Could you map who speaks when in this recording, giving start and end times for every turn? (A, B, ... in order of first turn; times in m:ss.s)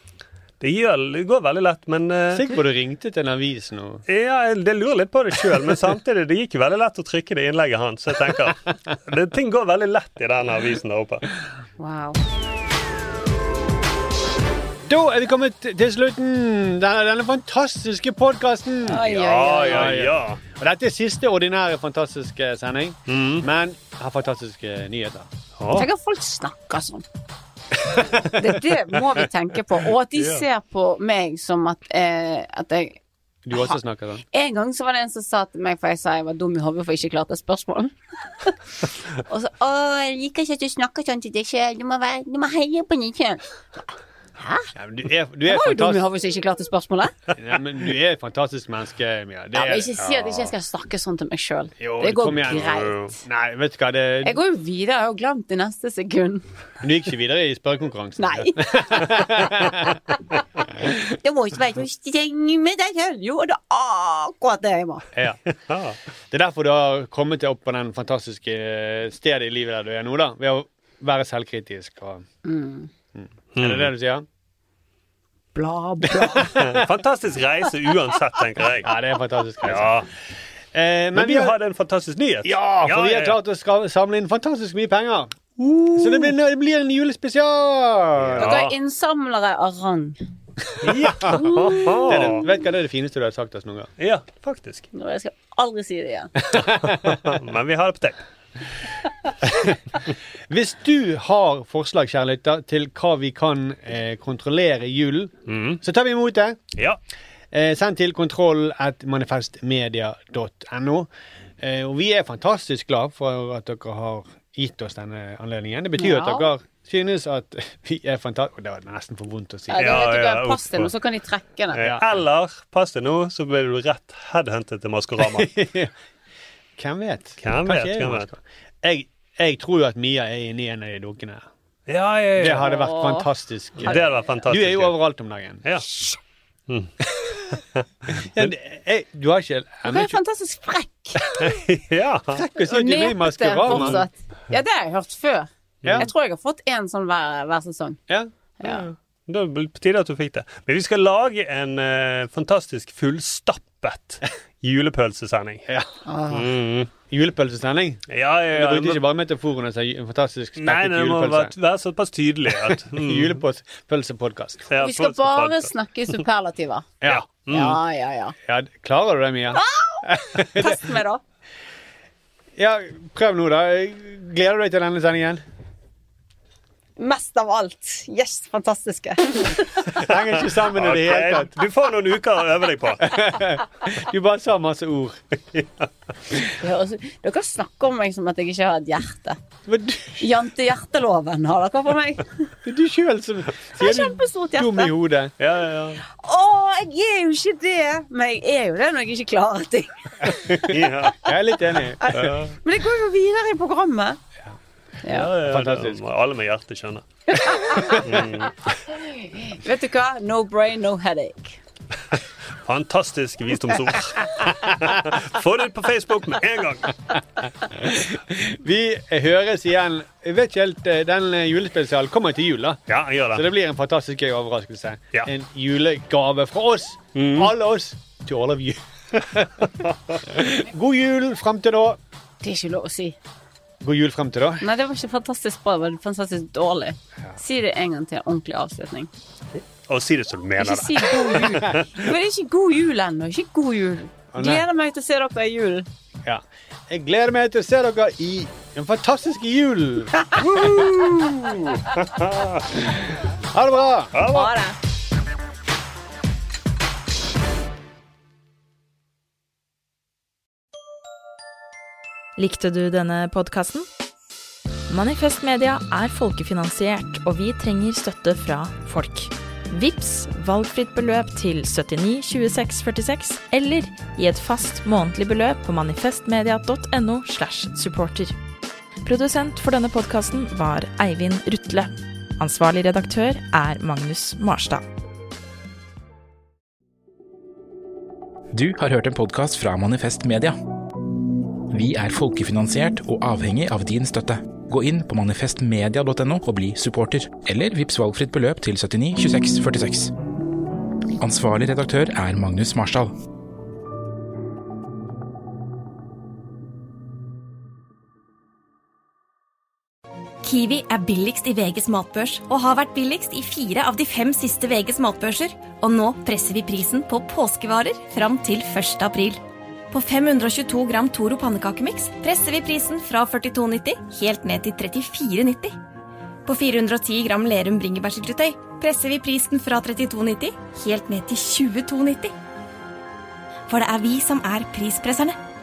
0:00.6-0:02.4 A
0:02.3-0:04.0 B
0:04.1-0:11.3 A
0:11.8-0:12.2 C
0:14.9-0:19.0 B
0:18.9-0:20.0 C
0:19.0-0:20.4 A
0:19.7-0:25.3 B
0:23.1-0:23.4 A
0:25.6-0:25.9 A
0:25.7-0:27.0 C
0:28.3-0:33.0 C
0:30.2-0:30.4 A
0:33.4-0:34.2 B
0:34.3-0:43.4 C
0:44.4-0:44.7 C
0:44.8-0:46.0 B
0:45.4-0:47.1 C
0:47.4-0:50.5 B
0:49.5-0:53.1 C
0:51.8-0:54.4 B
0:52.5-0:53.1 A
0:54.2-0:56.4 C
0:56.8-1:00.0 B
0:58.2-0:59.6 C
1:00.8-1:05.1 C
1:05.7-1:06.0 A
1:06.3-1:12.2 B
1:12.4-1:12.9 C
1:13.1-1:14.2 B
1:13.6-1:13.9 A
1:15.6-1:16.6 C
1:16.1-1:16.8 B
1:16.6-1:18.9 A
1:18.8-1:20.0 B
1:19.6-1:20.1 A
1:20.7-1:21.6 B
1:21.1-1:23.4 A
1:22.4-1:25.3 B
1:25.6-1:26.4 A
1:26.0-1:28.5 B
1:28.2-1:28.7 A
1:28.4-1:30.2 C
1:30.7-1:33.9 B
1:30.8-1:32.4 A
1:34.0-1:34.9 A
1:34.9-1:36.3 C
1:36.4-1:37.1 B
1:36.6-1:38.2 A
1:39.4-1:39.8 B
1:40.5-1:46.6 B
1:45.5-1:45.8 A
1:47.5-1:51.1 B
1:51.6-1:59.9 B
1:56.0-1:56.5 C
1:59.7-2:01.9 C
1:59.8-2:00.9 A
2:01.7-2:05.5 A
2:01.8-2:02.0 B
2:05.2-2:05.9 B
2:06.8-2:11.5 B
2:07.4-2:08.3 A
2:11.9-2:12.7 A
2:12.4-2:15.6 B
2:12.6-2:13.3 C
2:13.8-2:15.0 A
2:15.9-2:16.2 C
2:18.2-2:20.2 B
2:19.8-2:21.5 C
2:21.4-2:22.4 A
2:22.3-2:24.1 B
2:22.6-2:28.0 C
2:23.7-2:24.0 A
2:25.8-2:26.1 A
2:25.8-2:26.1 B
2:28.6-2:35.7 A
2:36.0-2:36.5 C
2:36.3-2:36.9 A
2:37.0-2:38.0 B
2:38.1-2:39.0 A
2:38.5-2:41.5 B
2:40.6-2:43.4 A
2:42.6-2:44.7 B
2:44.7-2:45.7 A
2:44.8-2:46.9 C
2:47.1-2:47.8 A
2:47.5-2:48.4 C
2:48.4-2:51.0 B
2:49.5-2:51.2 C
2:52.6-2:55.4 B
2:57.0-2:59.8 C
3:00.0-3:01.5 B
3:00.1-3:03.1 A
3:03.0-3:05.2 B
3:06.5-3:09.4 C
3:09.7-3:10.3 B
3:10.2-3:12.5 C
3:12.6-3:15.3 B
3:13.8-3:14.9 C
3:15.4-3:16.0 A
3:16.1-3:20.6 C
3:20.5-3:22.4 B
3:20.7-3:21.2 A
3:22.0-3:24.2 C
3:22.1-3:22.5 A
3:25.0-3:25.3 C
3:25.1-3:27.1 A
3:25.4-3:26.0 B
3:27.3-3:28.0 C
3:27.8-3:28.2 B
3:28.0-3:28.7 A
3:29.0-3:31.6 C
3:32.6-3:37.0 A
3:37.7-3:42.8 B
3:42.9-3:43.4 A
3:43.3-3:48.8 B
3:47.1-3:47.5 A
3:49.6-3:50.2 A
3:50.3-3:52.0 B
3:52.4-3:53.2 C
3:53.8-3:54.6 B
3:54.6-3:59.1 C
3:59.9-4:01.8 A
4:00.6-4:05.9 C
4:04.3-4:04.6 B
4:06.2-4:11.6 B
4:10.4-4:12.7 A
4:13.5-4:14.2 B
4:14.1-4:14.5 A
4:14.3-4:14.7 C
4:22.4-4:23.9 D
4:24.9-4:38.4 D
4:39.0-4:44.8 D
4:48.5-4:50.6 E
4:51.7-5:00.1 E
5:01.2-5:03.1 E
5:10.4-5:25.8 F
5:26.4-5:32.3 F
5:33.7-5:35.4 F